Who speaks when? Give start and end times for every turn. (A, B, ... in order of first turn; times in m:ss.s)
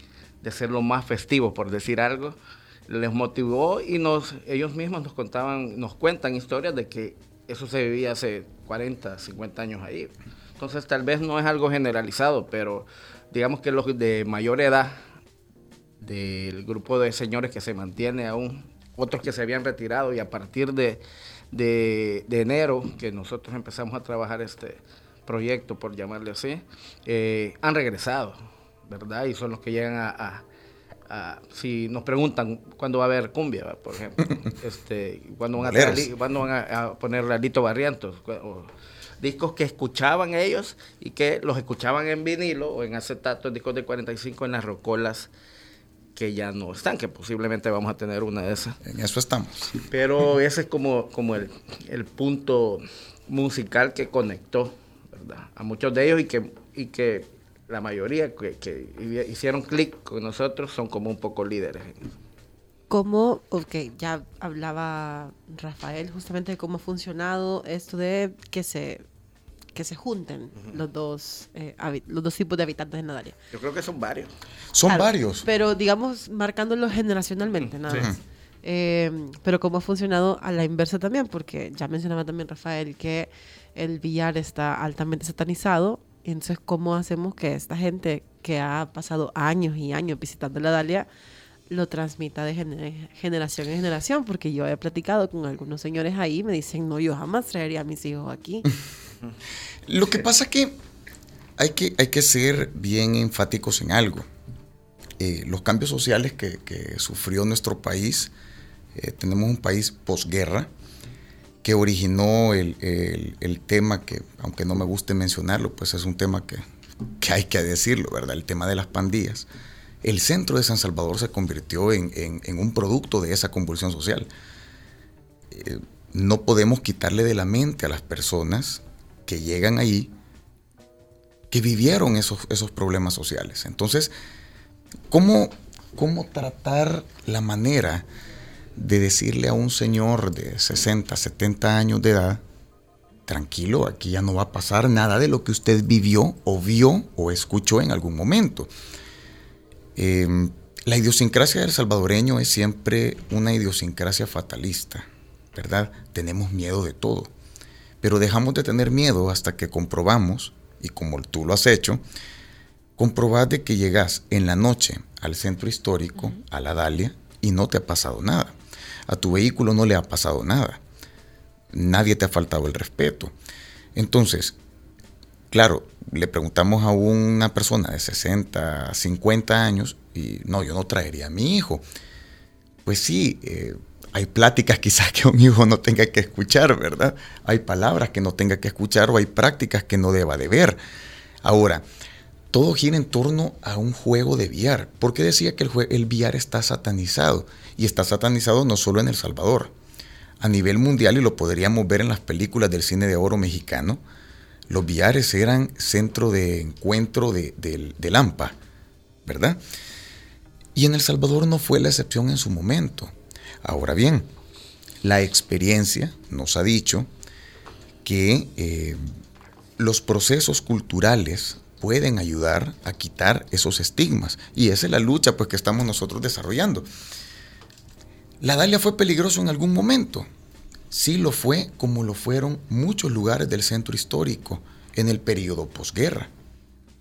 0:00.4-0:15.0 A
0:16.0-0:30.4 A
0:31.1-0:45.3 A
0:35.6-0:36.1 B
0:46.2-0:48.8 A
0:48.8-0:49.8 B
0:49.9-1:02.1 A
1:02.9-1:09.0 C
1:09.8-1:13.4 C
1:13.5-1:14.3 A
1:14.7-1:15.5 B
1:14.9-1:31.1 C
1:17.6-1:18.1 A
1:17.9-1:18.2 B
1:31.7-1:38.7 C
1:39.9-1:40.8 B
1:41.6-1:44.2 B
1:45.2-1:48.3 B
1:49.0-1:50.7 B
1:51.6-1:56.6 B
1:57.2-1:59.5 B
2:00.0-2:04.3 B
2:05.5-2:10.1 B
2:11.5-2:14.1 B
2:15.1-2:18.1 B
2:18.8-2:22.4 B
2:23.3-2:28.7 B
2:30.0-2:37.3 B
2:38.0-2:42.0 B
2:43.0-2:48.5 B
2:49.1-2:50.8 B
2:51.7-2:53.3 B
2:54.0-2:54.6 B
2:55.5-3:01.8 B
3:02.9-3:10.8 B
3:11.4-3:11.8 B
3:12.5-3:19.7 B
3:20.4-3:24.0 B
3:24.7-3:28.6 B
3:29.3-3:29.6 B
3:30.8-3:34.3 B
3:35.0-3:37.1 B
3:38.0-3:39.0 B
3:39.8-3:46.9 B
3:48.4-3:50.3 B
3:50.9-3:56.3 B